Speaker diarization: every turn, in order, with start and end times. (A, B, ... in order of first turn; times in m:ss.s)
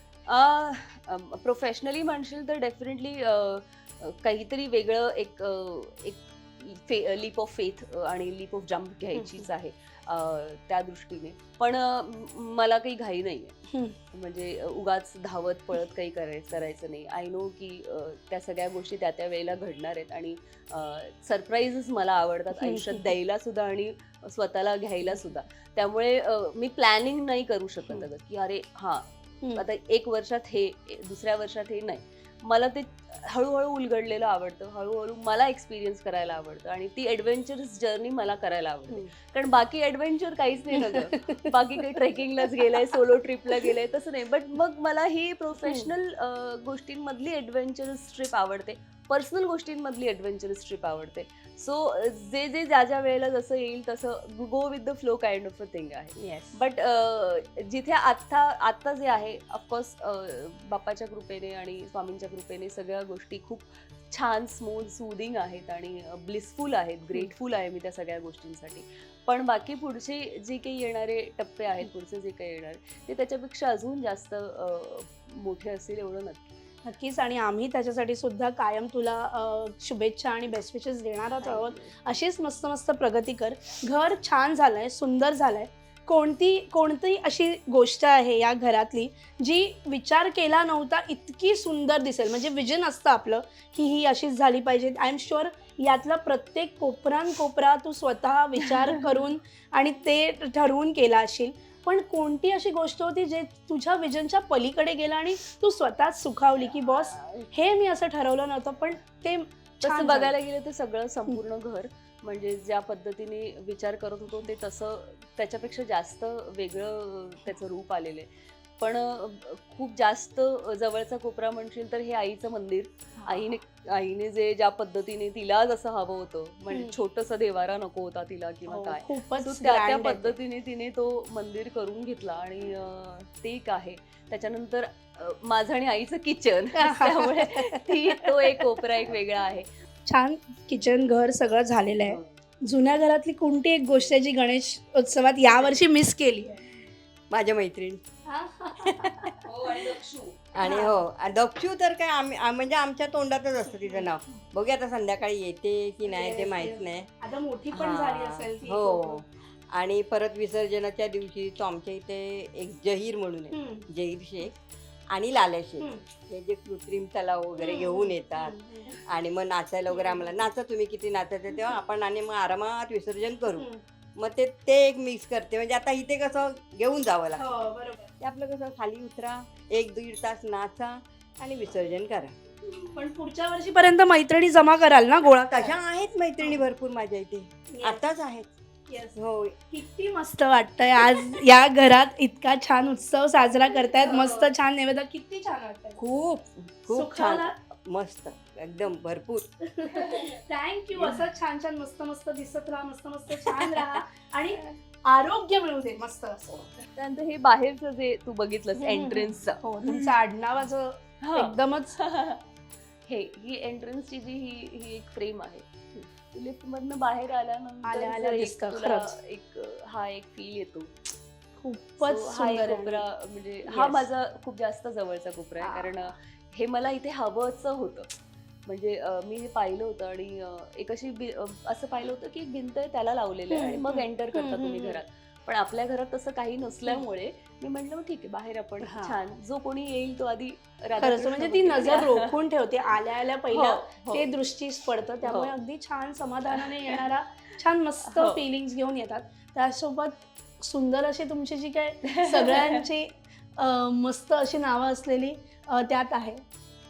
0:00.3-0:13.6 A
0:09.2-0:09.5 B
0:14.1-1:16.5 A
0:22.6-0:23.1 B
0:25.1-0:25.3 B
0:40.8-0:41.5 B
0:45.6-0:45.9 B
0:56.2-0:56.6 B
1:16.8-1:50.3 B
1:21.4-1:22.0 A
1:38.6-1:39.1 A
1:46.6-1:47.5 A
1:49.8-1:58.3 A
1:58.8-2:19.7 A
2:03.2-2:03.5 B
2:06.7-2:07.0 B
2:08.7-2:10.4 B
2:16.8-2:18.7 B
2:20.1-2:26.6 B
2:22.0-2:22.3 A
2:27.3-2:28.0 C
2:28.3-2:29.3 B
2:28.8-2:29.3 C
2:29.4-2:30.8 A
2:30.5-2:37.1 C
2:30.6-2:31.0 B
2:33.6-2:34.1 B
2:36.1-2:39.2 B
2:37.7-2:44.5 C
2:43.5-2:43.9 B
2:45.1-2:48.6 C
2:47.6-2:49.0 B
2:49.1-2:53.7 C
2:49.9-2:50.3 B
2:51.5-2:51.8 B
2:54.2-2:57.6 C
2:57.4-2:58.1 B
2:58.2-3:02.4 C
3:02.8-3:05.8 B
3:05.5-3:08.5 C
3:06.4-3:06.7 B
3:07.7-3:08.0 B
3:08.9-3:09.2 B
3:09.2-3:09.6 C
3:09.7-3:16.0 B
3:13.9-3:14.5 A
3:16.0-3:19.4 C
3:16.9-3:17.5 B
3:19.8-3:26.7 B
3:19.9-3:20.3 A
3:21.0-3:21.2 A
3:23.4-3:24.0 A
3:27.0-3:30.2 A
3:28.8-3:32.0 B
3:31.2-3:32.4 A
3:33.1-3:40.9 A
3:37.8-3:39.2 B
3:41.6-3:43.0 B
3:42.0-3:48.1 A
3:43.7-3:44.1 B
3:45.6-3:46.1 B
3:48.7-4:02.4 A
3:53.5-3:55.0 B
3:58.8-3:59.2 B
4:01.0-4:16.4 B
4:03.5-4:04.4 A
4:05.2-4:05.5 A
4:06.5-4:07.0 A
4:08.0-4:08.4 A
4:12.1-4:12.8 A